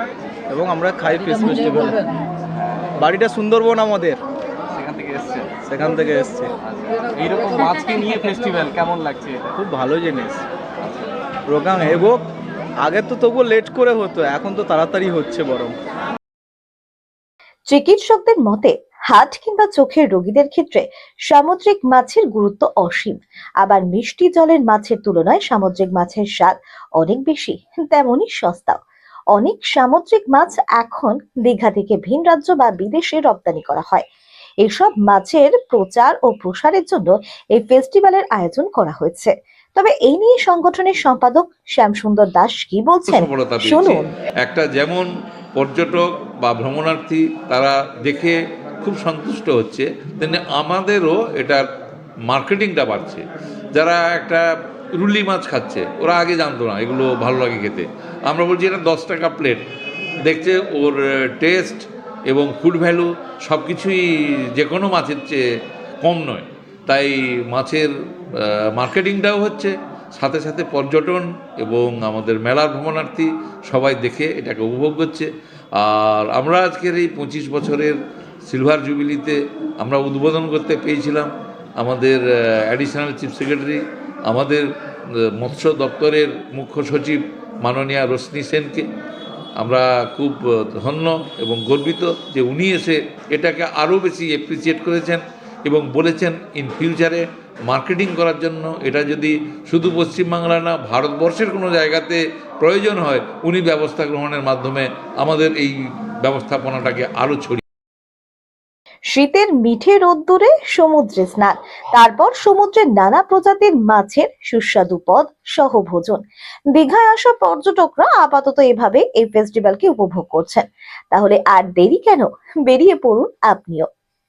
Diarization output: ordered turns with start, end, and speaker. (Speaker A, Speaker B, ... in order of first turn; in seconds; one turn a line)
Speaker A: 0.5-2.0
Speaker B: 1.2-1.6
Speaker B: 2.5-3.0
Speaker A: 3.0-4.2
Speaker B: 4.7-5.5
Speaker A: 5.7-6.5
Speaker B: 6.7-9.5
Speaker A: 9.6-10.4
Speaker B: 10.8-11.1
Speaker A: 11.5-12.3
Speaker A: 12.8-15.7
Speaker C: 17.7-28.8
Speaker C: 29.4-34.1
Speaker C: 34.6-44.1
Speaker D: 43.1-51.6
Speaker D: 52.3-53.2
Speaker D: 53.7-54.4
Speaker D: 55.0-59.6
Speaker D: 60.2-64.0
Speaker D: 64.6-65.4
Speaker D: 66.0-84.6
Speaker D: 85.4-88.8
Speaker D: 89.6-107.6
Speaker C: 109.1-116.2
Speaker C: 116.7-123.9